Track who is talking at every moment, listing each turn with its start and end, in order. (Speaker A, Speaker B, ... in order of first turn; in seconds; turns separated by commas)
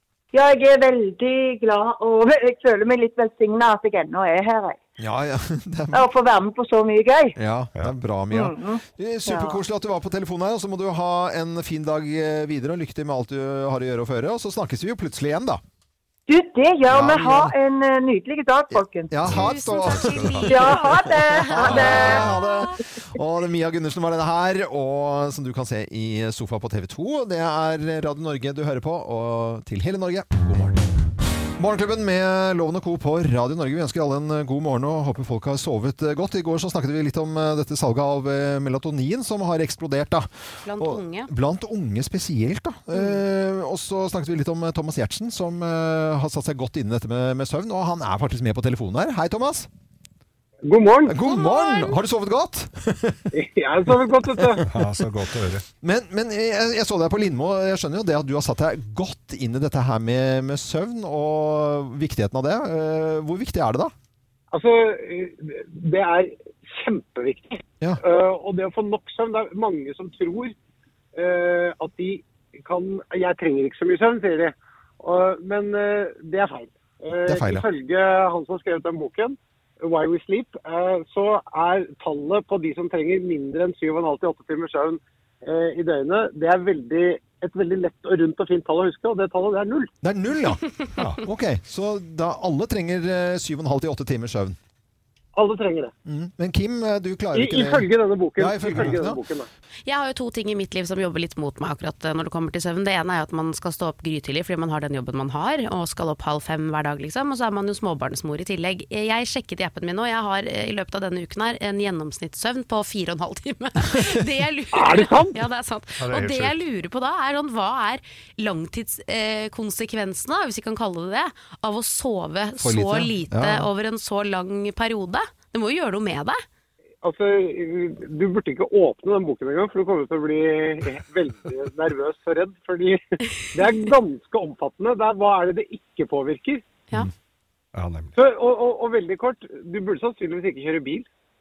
Speaker A: 0.3-4.8, Speaker B: 5.0-6.1, Speaker A: 5.9-7.3, Speaker B: 7.4-15.6, Speaker A: 8.3-9.6, Speaker A: 16.3-19.1, Speaker B: 16.9-17.5, Speaker B: 18.7-20.5, Speaker C: 19.3-20.8, Speaker D: 19.3-21.1, Speaker A: 20.4-22.4, Speaker B: 21.2-30.8, Speaker D: 21.6-22.7, Speaker B: 31.6-49.7, Speaker D: 40.6-41.3, Speaker E: 50.6-51.2, Speaker B: 51.1-53.3, Speaker D: 51.2-52.0, Speaker E: 53.3-54.6, Speaker C: 54.6-55.6, Speaker B: 55.8-63.9, Speaker E: 64.5-70.5, Speaker E: 71.1-89.9, Speaker B: 77.2-77.6, Speaker B: 90.0-90.7, Speaker C: 91.0-91.2, Speaker B: 91.2-94.6, Speaker E: 95.3-95.9, Speaker B: 96.0-97.8, Speaker E: 97.3-99.5, Speaker B: 98.4-99.2, Speaker D: 99.8-126.4, Speaker E: 114.7-115.4, Speaker C: 116.0-116.6, Speaker B: 122.6-123.7, Speaker E: 127.0-136.7, Speaker C: 137.7-138.1, Speaker E: 138.2-141.1